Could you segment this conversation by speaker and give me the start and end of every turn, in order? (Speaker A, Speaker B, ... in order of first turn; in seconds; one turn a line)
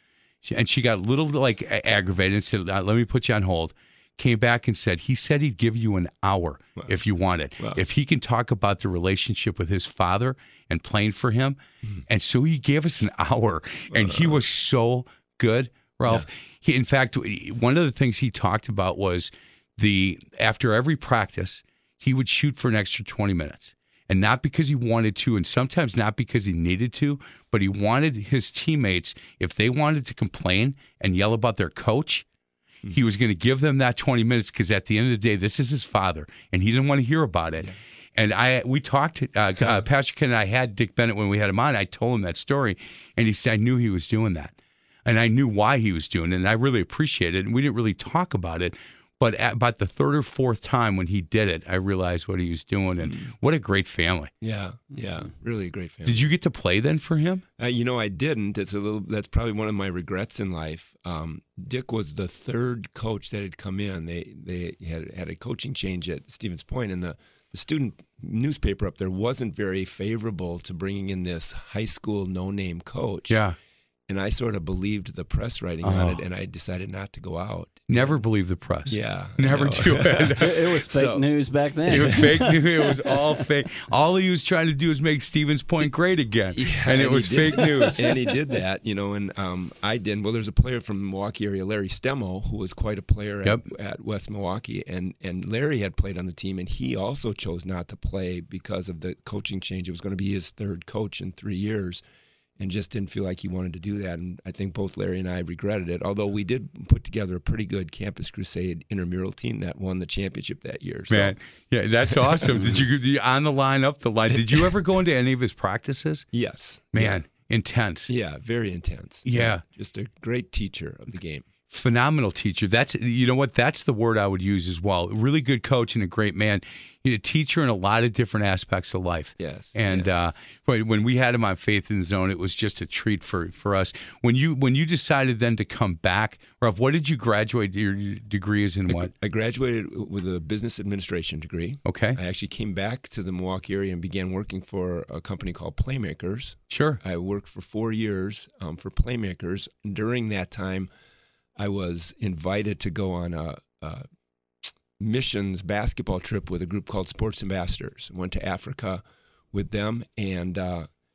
Speaker A: 0.4-32.2
Speaker B: 7.6-7.8
Speaker B: 13.9-14.4
Speaker A: 32.9-44.5
Speaker A: 45.0-54.3
Speaker B: 53.0-53.3
Speaker B: 54.4-56.3
Speaker A: 56.0-57.4
Speaker B: 57.6-73.4
Speaker A: 73.3-73.5
Speaker B: 74.1-78.2
Speaker A: 75.8-76.2
Speaker A: 77.9-80.7
Speaker B: 78.9-81.2
Speaker C: 80.4-83.1
Speaker A: 81.9-88.1
Speaker B: 81.9-82.2
Speaker B: 86.5-102.0
Speaker B: 102.6-111.4
Speaker A: 111.1-116.3
Speaker B: 112.0-112.9
Speaker B: 116.3-117.2
Speaker A: 116.9-118.1
Speaker B: 118.1-121.5
Speaker A: 119.2-119.6
Speaker A: 121.7-139.1
Speaker B: 129.4-130.1
Speaker B: 138.9-150.9
Speaker A: 141.9-142.2
Speaker A: 146.7-147.0
Speaker B: 151.6-154.1
Speaker B: 155.0-159.0
Speaker B: 159.5-160.9